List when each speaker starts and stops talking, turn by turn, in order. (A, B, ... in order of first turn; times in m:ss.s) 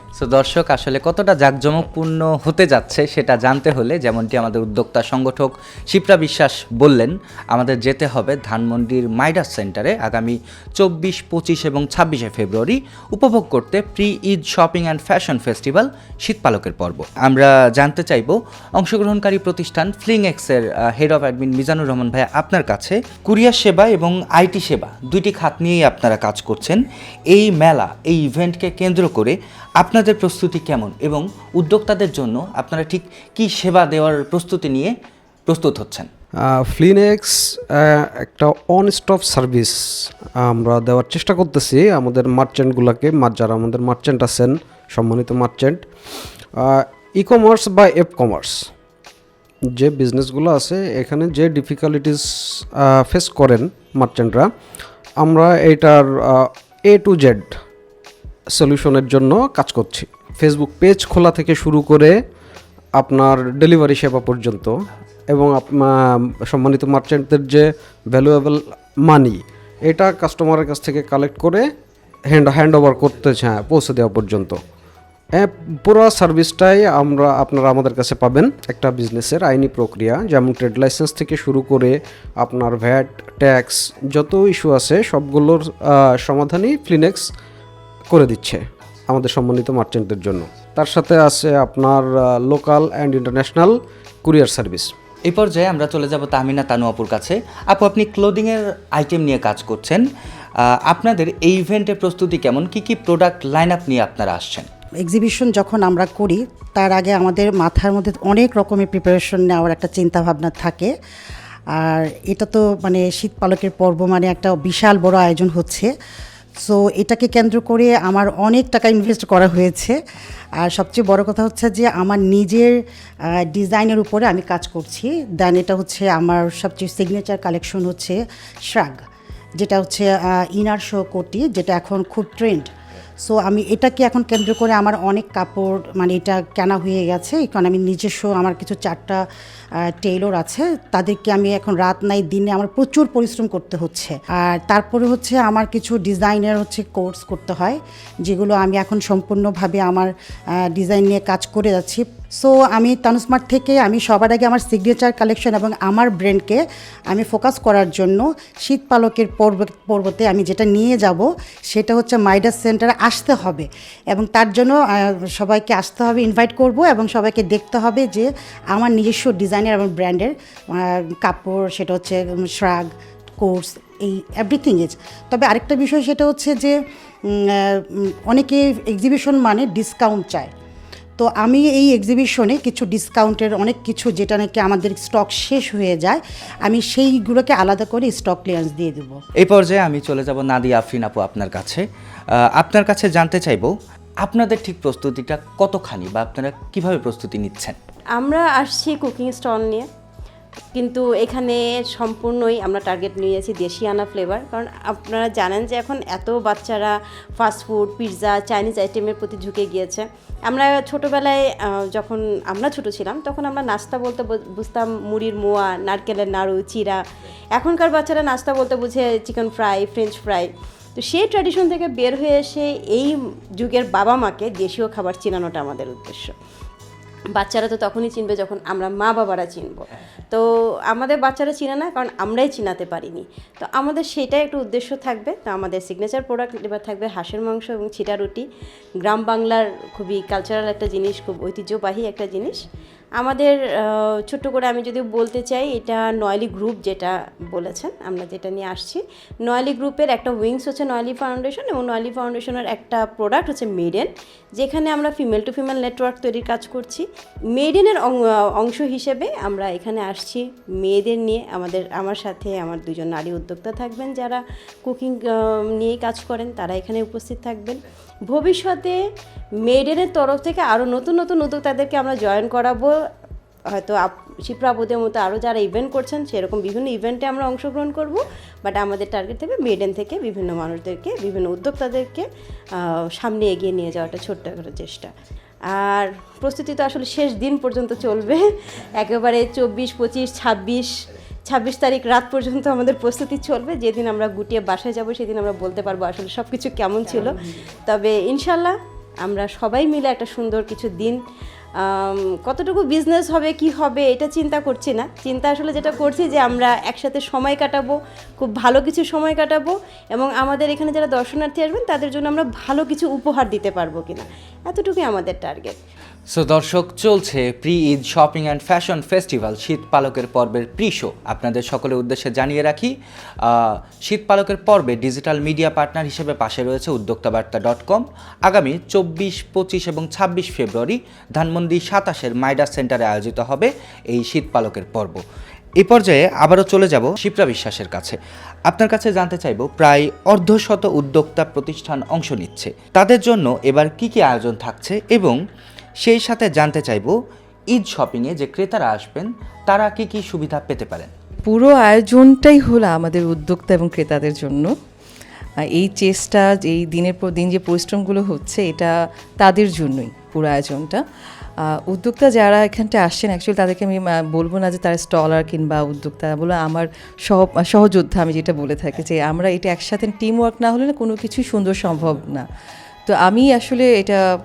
0:00.2-0:34.9 A
0:35.5-0:36.1 A
0:36.6-0:39.8 B
0:40.4-0:45.8 B
0:46.6-0:48.7 B
0:49.8-0:54.5 B
0:55.2-0:57.6 B
0:58.5-1:02.2 B
1:03.0-1:04.8 B
1:05.3-1:06.0 B
1:06.5-1:11.7 B
1:12.3-1:14.6 B
1:15.4-1:27.3 B
1:28.1-1:34.9 B
1:35.3-1:40.0 A
1:40.9-1:44.6 A
1:45.0-1:50.9 C
1:51.8-1:55.9 C
1:56.6-2:00.0 C
2:00.6-2:02.7 C
2:03.5-2:09.0 C
2:09.6-2:12.7 C
2:13.2-2:19.2 C
2:19.8-2:30.1 C
2:30.6-2:52.9 C
2:53.4-2:56.7 C
2:57.3-3:00.5 C
3:01.2-3:09.2 C
3:09.4-3:11.8 A
3:12.6-3:13.7 A
3:14.2-3:17.8 A
3:18.2-3:19.9 D
3:20.8-3:37.0 D
3:37.6-3:46.3 D
3:47.3-3:49.8 D
3:50.9-3:58.4 D
3:59.0-4:02.6 D
4:02.2-4:02.6 C
4:03.2-4:14.1 D
4:14.6-4:17.0 D
4:17.6-4:27.8 D
4:28.3-4:28.9 D
4:29.6-4:32.9 D
4:33.7-4:42.2 D
4:42.8-4:45.1 D
4:43.8-4:45.1 C
4:45.7-4:48.4 D
4:48.1-4:48.5 C
4:49.0-4:49.3 C
4:49.2-4:50.9 D
4:51.5-4:57.1 D
4:57.0-4:57.3 C
4:57.9-4:58.7 D
4:59.2-5:01.2 D
5:01.8-5:15.8 D
5:16.3-5:22.9 A
5:23.4-5:35.2 A
5:35.8-5:38.2 A
5:38.7-5:45.4 A
5:46.0-5:47.1 A
5:47.7-5:51.1 A
5:51.5-5:54.7 E
5:55.7-6:01.0 E
6:01.9-6:12.4 E
6:13.1-6:14.2 E